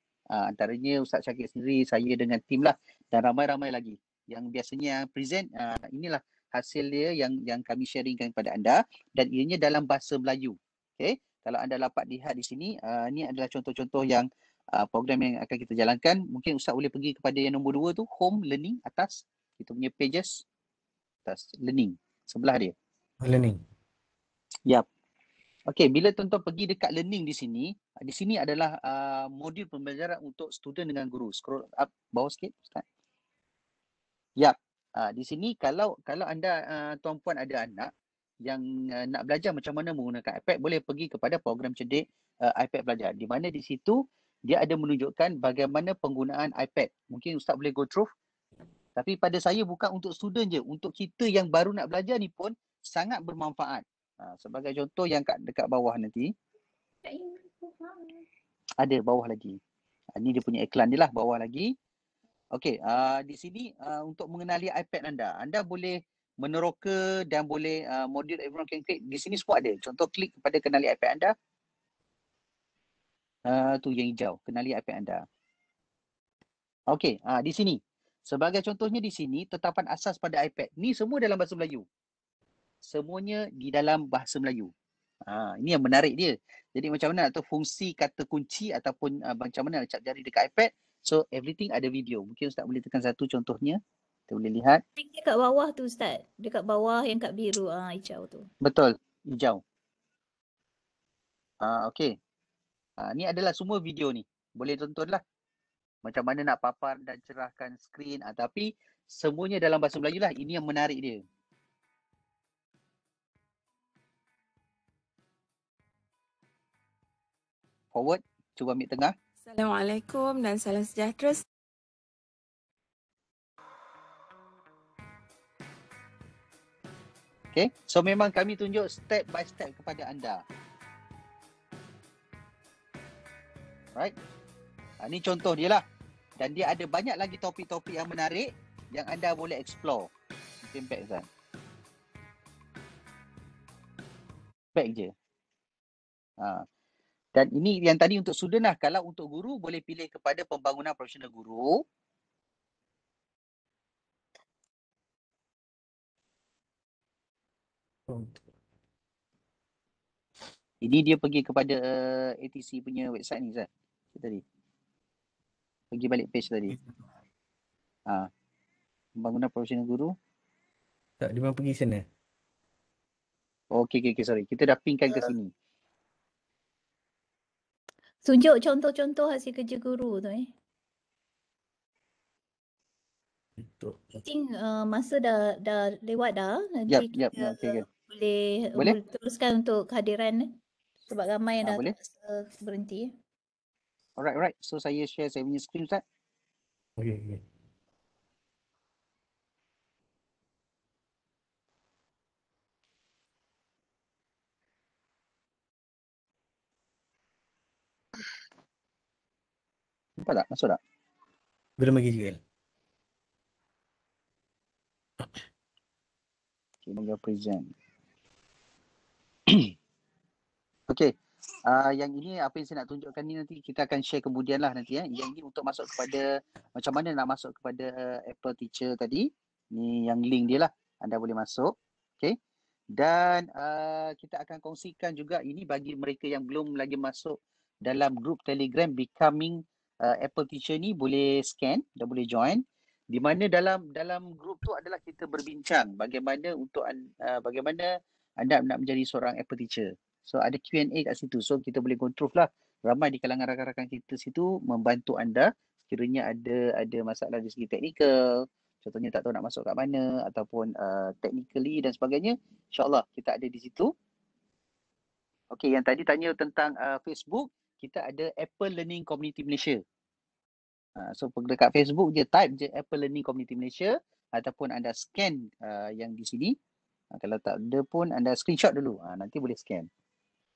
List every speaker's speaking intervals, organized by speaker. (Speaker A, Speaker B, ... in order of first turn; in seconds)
Speaker A: 0.3-20.4, 21.3-22.7, 25.7-32.8, 34.4-37.9, 38.5-48.1, 49.0-56.3, 58.8-59.6, 60.2-61.7, 62.5-71.3, 73.5-75.2, 76.9-81.8, 82.8-84.7, 85.3-93.8, 94.3-94.8, 98.6-99.6, 101.6-102.1, 103.0-105.2, 106.0-111.2, 117.9-119.1, 127.5-130.4, 135.0-135.8, 136.4-140.1, 140.6-141.3, 144.8-145.1, 147.3-151.8, 160.8-164.4, 165.9-166.8, 169.2-170.1, 173.7-175.5, 186.9-187.8, 191.6-191.9, 194.2-196.0, 210.2-210.8, 216.9-217.7, 221.7-232.3, 232.9-242.6, 243.1-247.9, 248.4-263.9, 265.5-269.8, 271.0-276.6, 277.1-279.9
Speaker B: 23.2-23.6, 158.1-158.4, 171.2-172.1, 183.6-184.2, 197.0-197.4, 211.8-212.4
Speaker C: 57.2-57.7, 95.0-98.5, 178.2-180.5, 184.2-190.6, 191.1-193.1
Speaker D: 119.5-121.4